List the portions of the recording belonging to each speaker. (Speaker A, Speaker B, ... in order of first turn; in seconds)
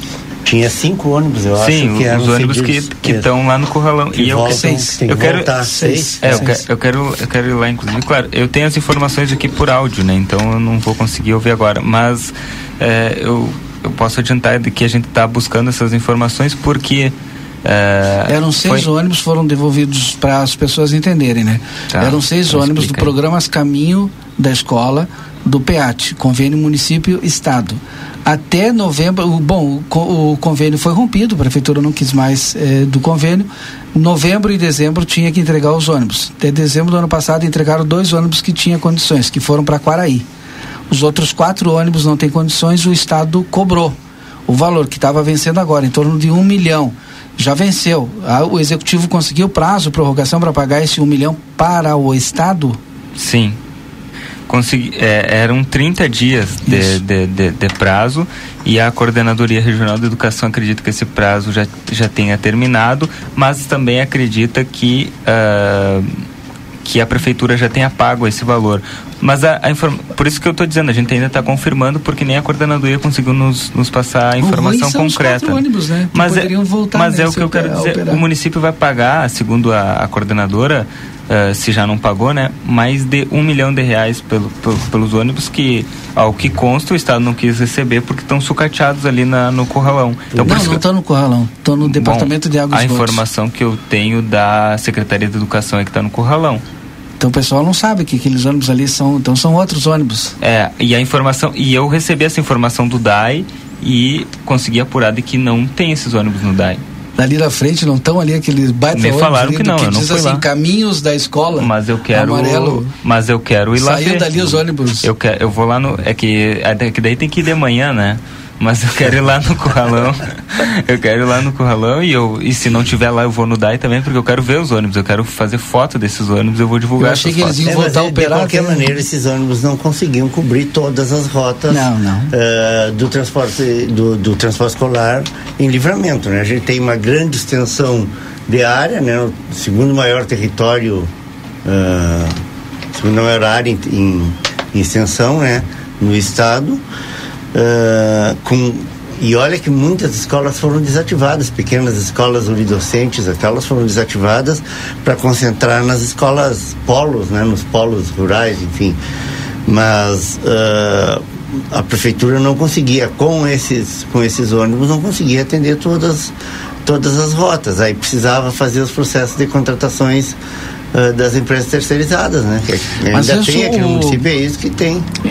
Speaker A: 0.4-3.3, 4.1-6.5, 90.3-90.8, 127.6-141.1, 141.6-142.4, 142.9-146.8, 147.5-159.0, 159.7-170.4, 170.9-175.1
Speaker B: 1.6-5.5, 6.2-18.9, 21.9-23.1, 53.1-53.6, 54.5-66.2, 66.8-75.6, 76.1-90.8, 91.8-96.6, 100.4-106.8, 108.9-110.4, 111.6-114.3, 115.0-127.6
Speaker C: 4.5-5.0, 5.6-6.6, 18.3-40.2, 40.9-44.0, 44.5-52.8, 56.6-57.0, 74.4-78.2, 90.4-93.2, 97.2-100.3, 107.2-112.9, 113.8-115.1, 127.0-129.0, 131.7-132.3, 173.1-174.2